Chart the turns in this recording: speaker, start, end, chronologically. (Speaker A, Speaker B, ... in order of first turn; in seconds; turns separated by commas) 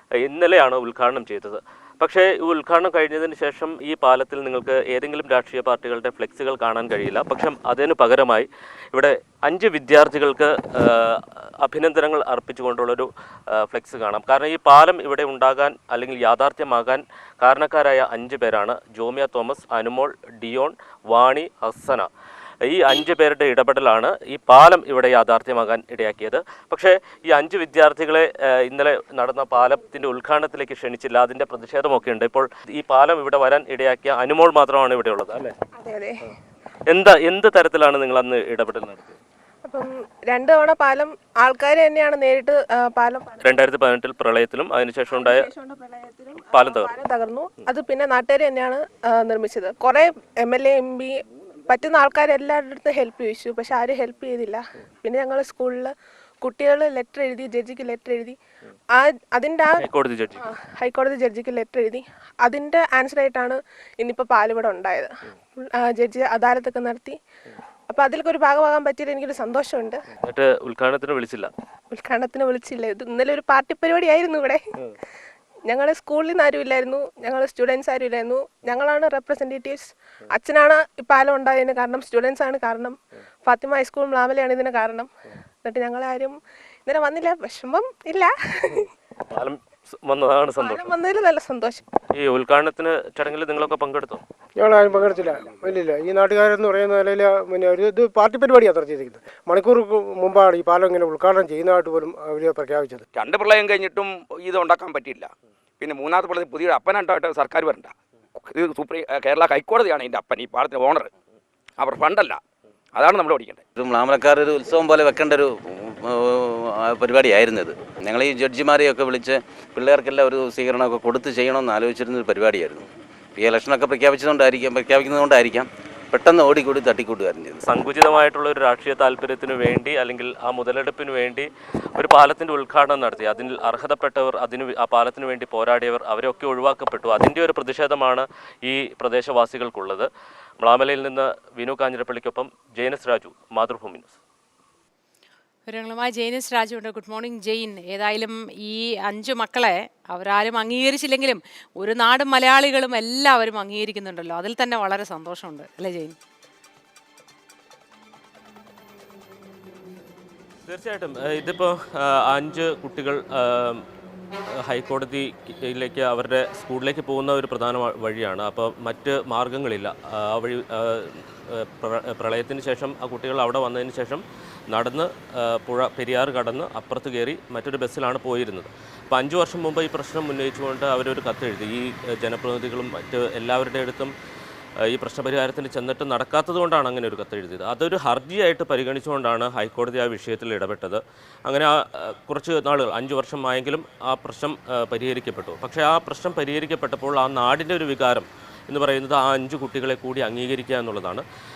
Speaker A: 0.2-22.1, Speaker A: 22.6-35.5, Speaker B: 35.8-36.2, Speaker A: 36.9-39.1, Speaker B: 39.6-43.4, Speaker A: 43.4-45.5, Speaker B: 45.1-51.1, Speaker A: 46.4-46.9, Speaker B: 51.7-58.4, Speaker B: 58.9-59.8, Speaker A: 59.8-60.5, Speaker B: 60.4-65.1, Speaker B: 65.6-67.2, Speaker B: 67.9-70.0, Speaker A: 70.2-71.5, Speaker B: 71.9-74.6, Speaker B: 75.7-85.1, Speaker B: 85.6-86.3, Speaker B: 86.8-88.9, Speaker A: 89.3-90.9, Speaker B: 90.6-91.8, Speaker A: 92.1-94.2, Speaker C: 94.6-103.0, Speaker D: 103.2-105.3, Speaker D: 105.8-107.9, Speaker D: 108.5-111.0, Speaker D: 111.8-112.4, Speaker D: 113.0-113.6, Speaker E: 113.8-127.6, Speaker A: 127.6-144.2, Speaker F: 145.7-156.1, Speaker A: 160.7-163.8, Speaker A: 164.6-184.1, Speaker A: 184.8-201.2